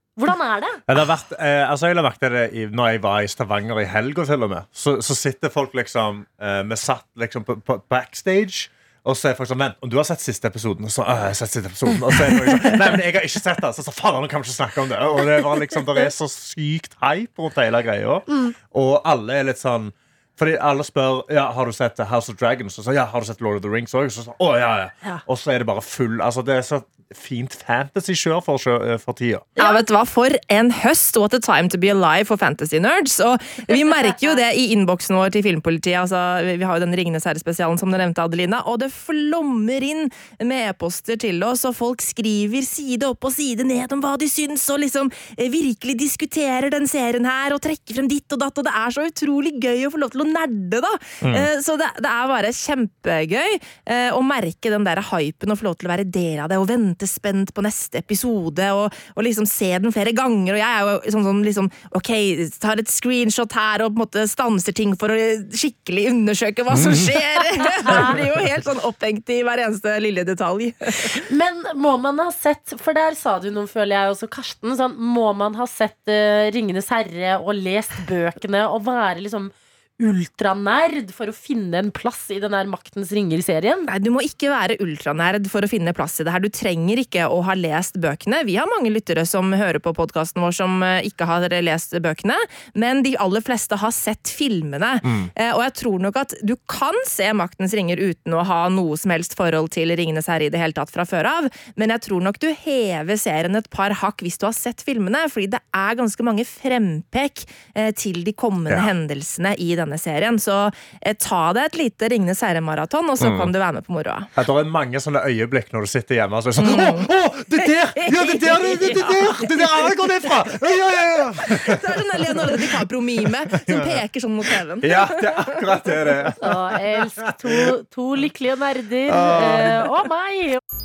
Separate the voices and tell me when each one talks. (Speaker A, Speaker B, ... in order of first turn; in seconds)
Speaker A: 0.2-0.8, 29.6-29.9, 67.8-68.2, 71.1-83.9, 126.4-130.6
Speaker B: 0.9-29.5, 51.2-51.5, 66.7-67.1, 95.0-95.3, 113.2-113.5, 114.4-122.9, 123.5-123.9, 124.8-126.5, 127.2-127.5, 129.1-129.9
Speaker C: 29.6-71.2, 83.9-114.3, 116.6-117.1, 117.7-119.7, 121.4-125.6